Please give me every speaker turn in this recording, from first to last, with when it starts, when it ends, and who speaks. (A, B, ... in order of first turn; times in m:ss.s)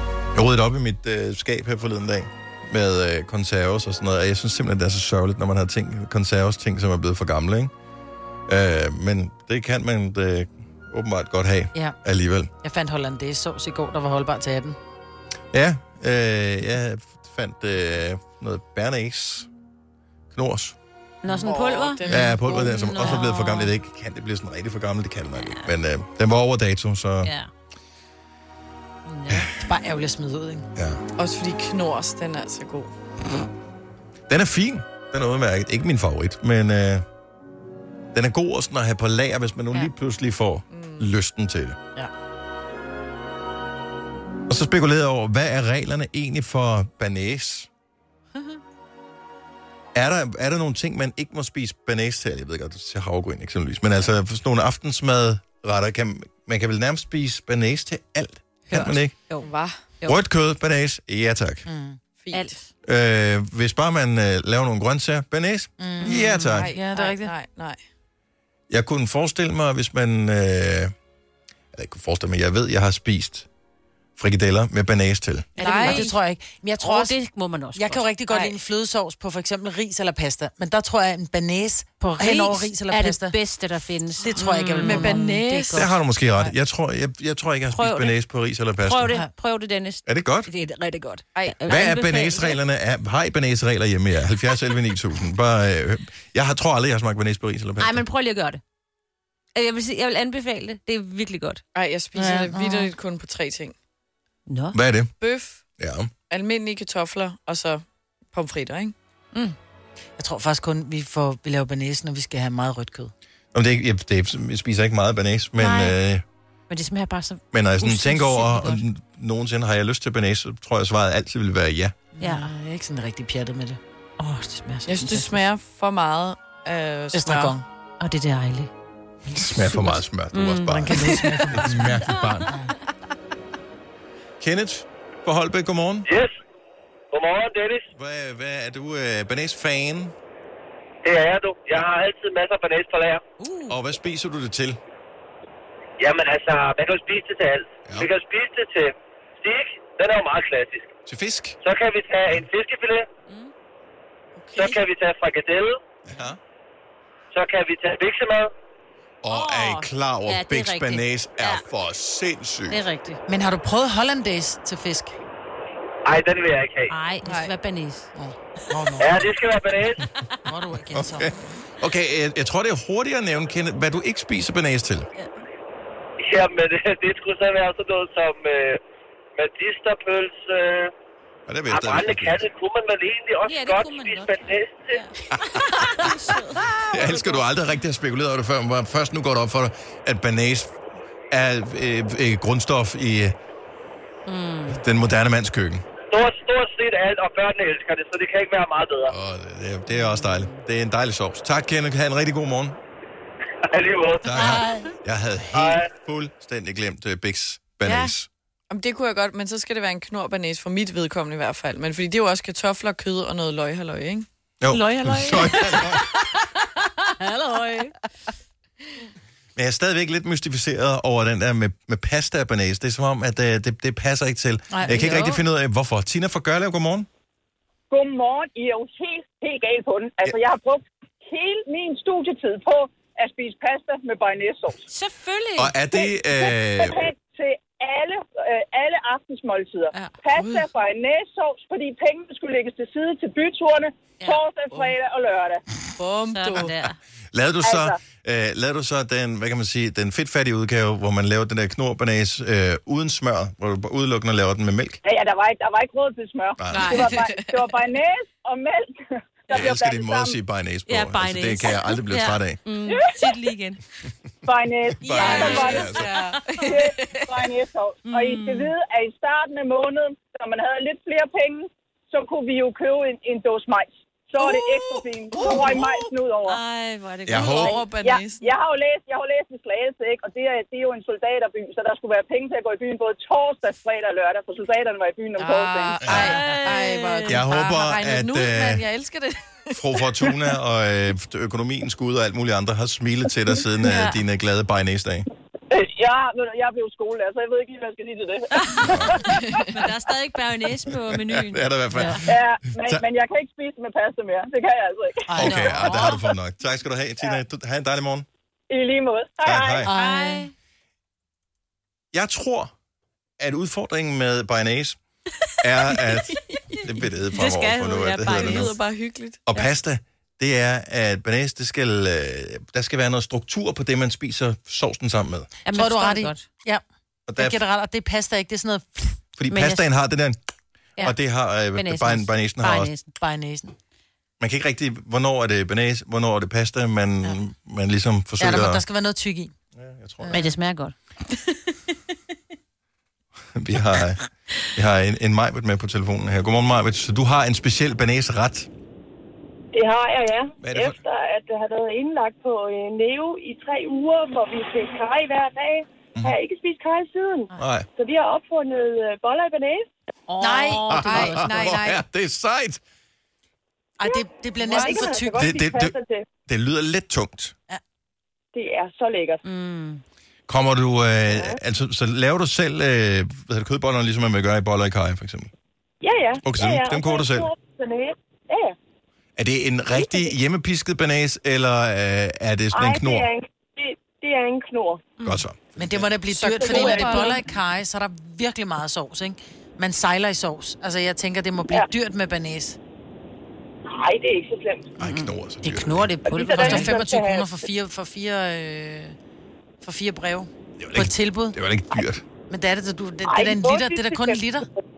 0:00.3-0:07.7 A
0:08.5-0:12.5 A
0:12.6-0:14.8 B
0:15.5-0:19.5 A
0:20.3-0:20.8 A
0:21.2-0:23.7 C
0:21.3-0:22.7 D
0:22.1-0:27.3 A
0:25.4-0:25.7 C
0:27.2-0:27.5 C
0:29.1-0:29.5 C
0:29.3-0:29.5 A
0:29.6-0:30.7 B
0:30.8-0:31.0 A
0:31.2-0:33.0 D
0:34.3-0:37.0 A
0:38.1-0:41.8 A
0:40.7-0:41.1 D
0:44.5-0:47.7 A
0:50.0-0:59.2 A
0:58.8-1:00.2 C
0:59.4-0:59.9 D
1:00.0-1:01.7 A
1:01.7-1:02.0 B
1:02.2-1:02.6 D
1:02.3-1:02.7 C
1:02.8-1:06.7 A
1:05.8-1:07.3 B
1:06.0-1:06.4 C
1:06.2-1:07.8 D
1:08.7-1:10.9 A
1:11.7-1:13.5 A
1:14.2-1:15.5 A
1:15.6-1:16.2 C
1:15.6-1:16.1 D
1:15.6-1:17.2 B
1:16.8-1:18.1 C
1:17.8-1:23.4 B
1:18.3-1:18.6 D
1:22.2-1:25.9 C
1:24.2-1:25.8 B
1:24.8-1:25.8 D
1:25.7-1:29.2 A
1:27.7-1:28.2 C
1:28.8-1:32.6 C
1:30.1-1:30.5 A
1:31.3-1:31.8 D
1:31.7-1:38.0 A
1:37.8-1:38.6 C
1:39.6-1:41.6 C
1:41.7-1:43.8 D
1:42.2-1:43.0 B
1:44.5-1:44.8 C
1:44.7-1:45.1 A
1:45.2-1:45.6 D
1:45.8-1:46.1 A
1:46.3-1:49.6 D
1:50.2-1:53.1 B
1:53.5-1:56.2 A
1:55.6-1:55.9 C
1:56.7-1:58.8 C
1:57.5-2:02.0 A
2:02.2-2:05.4 B
2:02.2-2:02.5 C
2:04.9-2:07.6 D
2:07.1-2:07.6 B
2:08.0-2:08.7 C
2:09.3-2:12.6 A
2:09.5-2:10.0 B
2:10.3-2:12.1 C
2:10.7-2:12.7 B
2:14.4-2:16.1 A
2:16.1-2:16.3 E
2:17.1-2:17.9 E
2:17.9-2:20.1 A
2:21.0-2:23.2 E
2:23.4-2:23.8 C
2:23.7-2:24.8 A
2:26.0-2:30.9 E
2:31.1-2:31.6 A
2:31.6-2:33.1 E
2:34.4-2:34.8 D
2:34.6-2:35.8 E
2:36.1-2:36.4 A
2:37.3-2:38.5 E
2:39.2-2:42.8 A
2:39.3-2:41.6 C
2:42.7-2:43.2 C
2:43.3-2:45.2 B
2:46.1-2:46.9 E
2:46.9-2:48.1 C
2:47.2-2:47.6 D
2:48.2-2:49.2 B
2:49.0-2:50.0 E
2:50.2-2:50.5 C
2:50.5-2:51.3 B
2:50.9-2:55.1 A
2:56.2-2:58.8 E
2:59.4-3:00.9 E
3:01.5-3:02.5 A
3:01.7-3:05.0 E
3:03.4-3:07.4 C
3:06.9-3:10.8 A
3:11.3-3:13.4 A
3:14.3-3:14.8 C
3:14.7-3:15.8 A
3:16.1-3:19.1 E
3:19.1-3:22.8 A
3:19.9-3:20.6 C
3:23.7-3:24.6 E
3:24.2-3:28.3 A
3:24.4-3:24.9 B
3:25.5-3:25.9 E
3:27.8-3:28.1 C
3:28.7-3:34.3 D
3:34.6-3:36.2 A
3:34.7-3:37.9 C
3:37.2-3:37.9 B
3:39.6-3:47.1 A
3:44.7-3:45.3 B
3:44.9-3:45.4 C
3:47.9-3:54.9 F
3:54.9-3:55.8 C
3:55.6-3:57.1 A
3:55.9-4:05.6 F
3:59.9-4:00.2 C
4:00.3-4:00.7 D
4:04.7-4:05.0 D
4:06.0-4:06.8 D
4:06.3-4:07.0 C
4:07.3-4:15.0 A
4:07.6-4:08.0 F
4:15.0-4:20.4 F
4:16.6-4:17.1 A
4:16.7-4:17.2 C
4:17.2-4:17.8 D
4:19.5-4:22.6 A
4:20.9-4:23.8 C
4:22.9-4:23.4 F
4:24.4-4:26.1 F
4:25.0-4:26.2 A
4:25.0-4:27.2 D
4:25.1-4:26.8 C
4:26.6-4:36.6 F
4:28.0-4:28.7 C
4:34.4-4:37.8 C
4:35.4-4:36.0 D
4:37.3-4:37.8 A
4:37.3-4:38.5 D
4:37.6-4:46.2 F
4:45.4-4:50.0 D
4:46.0-4:46.3 A
4:46.1-4:47.5 C
4:47.3-4:48.8 A
4:49.7-4:55.3 A
4:53.8-4:54.2 C
4:55.7-4:59.3 F
4:58.5-5:02.2 C
4:58.9-4:59.3 A
5:01.1-5:03.0 A
5:02.2-5:06.0 F
5:05.3-5:06.2 B
5:05.4-5:08.3 A
5:08.7-5:09.9 F
5:09.4-5:09.9 A
5:09.9-5:10.5 B
5:09.9-5:10.5 C
5:12.1-5:12.7 A
5:13.4-5:15.0 A
5:15.6-5:18.8 A
5:17.3-5:18.8 C
5:18.2-5:19.5 D
5:19.5-5:25.5 A
5:25.6-5:26.4 C
5:25.7-5:26.8 B
5:27.3-5:27.6 A
5:27.4-5:29.3 B
5:29.4-5:30.4 A
5:29.5-5:29.9 C
5:31.0-5:33.1 C
5:31.0-5:32.9 A
5:33.2-5:33.8 B
5:34.4-5:38.8 A
5:38.4-5:39.5 B
5:39.8-5:40.4 A
5:40.2-5:40.6 B
5:40.3-5:40.9 C
5:43.6-5:48.7 A
5:49.7-5:59.9 G
5:50.6-5:51.0 A
5:57.6-5:57.9 A
6:00.3-6:01.6 C
6:00.4-6:00.8 B
6:00.9-6:02.8 A
6:01.0-6:02.0 D
6:04.0-6:05.5 B
6:04.0-6:06.3 G
6:05.4-6:07.6 A
6:08.5-6:09.4 G
6:09.4-6:10.0 C
6:10.5-6:15.5 A
6:11.3-6:11.6 G
6:16.0-6:18.8 G
6:16.4-6:17.5 A
6:19.4-6:23.3 A
6:20.0-6:20.3 G
6:22.7-6:25.1 G
6:25.2-6:26.0 A
6:25.8-6:32.8 B
6:26.3-6:27.3 D
6:26.6-6:27.3 G
6:33.9-6:34.9 G
6:35.0-6:36.1 A
6:35.0-6:37.0 C
6:36.2-6:37.7 G
6:36.5-6:39.2 B
6:39.8-6:41.6 B
6:40.8-6:42.2 A
6:42.5-6:44.7 B
6:43.2-6:44.5 G